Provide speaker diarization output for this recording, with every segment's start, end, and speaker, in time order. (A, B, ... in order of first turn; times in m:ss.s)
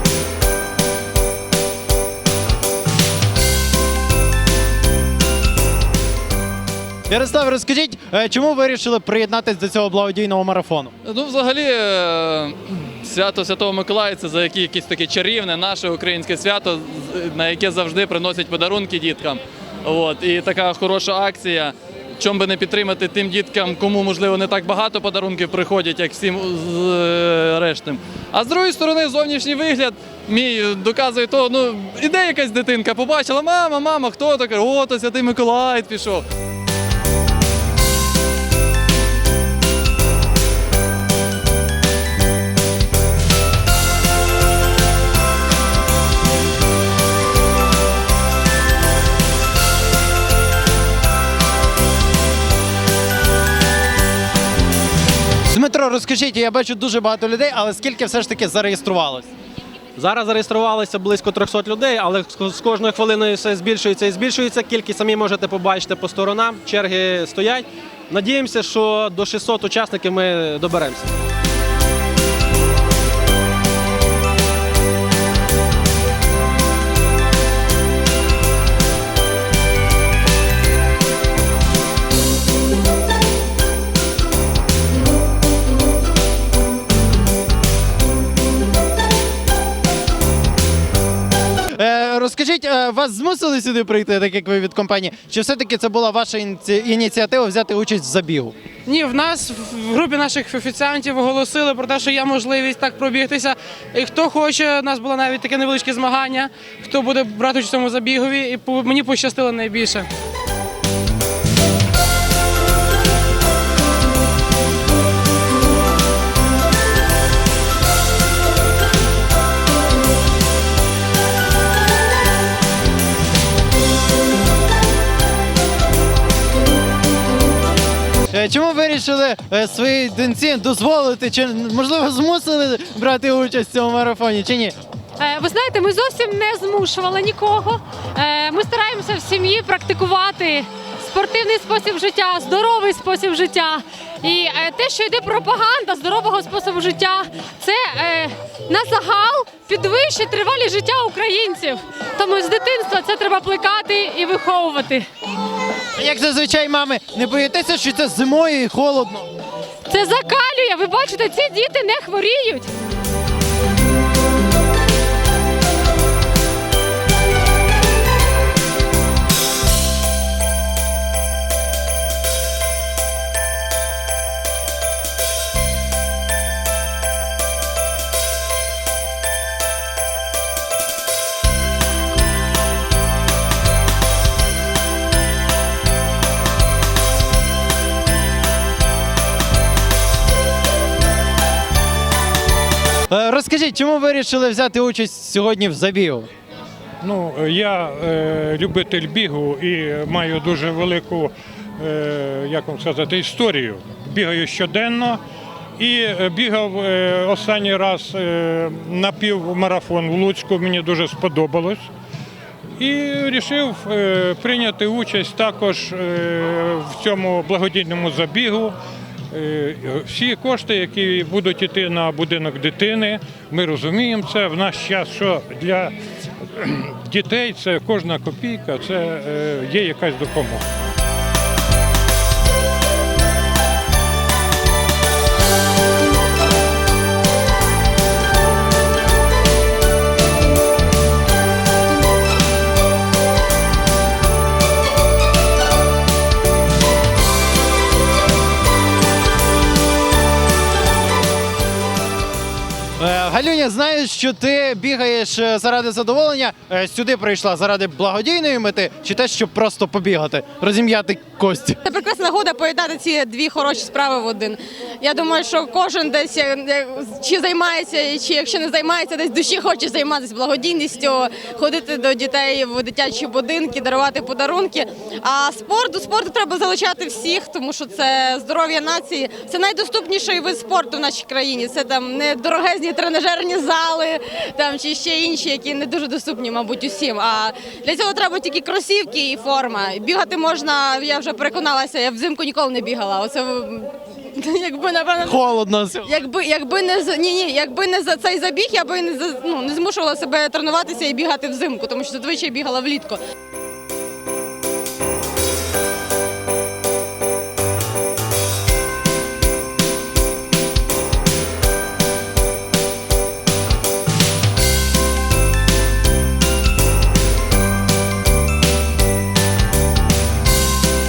0:07.1-0:10.9 A
0:11.2-0:12.0 B
0:13.0-0:19.4 B
0:19.9-0:21.7 B
0:22.2-0:36.2 B
0:55.5-0:59.3 A
1:00.0-1:11.1 C
1:31.8-1:38.6 A
1:38.9-1:50.1 D
2:08.3-2:14.8 A
2:15.2-2:35.1 E
2:36.0-2:39.3 A
2:39.9-2:42.7 E
3:13.1-3:16.3 A
3:17.0-3:25.2 F
3:25.8-3:31.9 F
3:32.8-3:38.8 F
3:39.3-3:45.9 F
3:46.6-3:50.6 F
4:13.0-4:21.8 A
4:21.8-4:55.4 G
4:55.2-4:56.1 A
4:56.0-5:03.2 G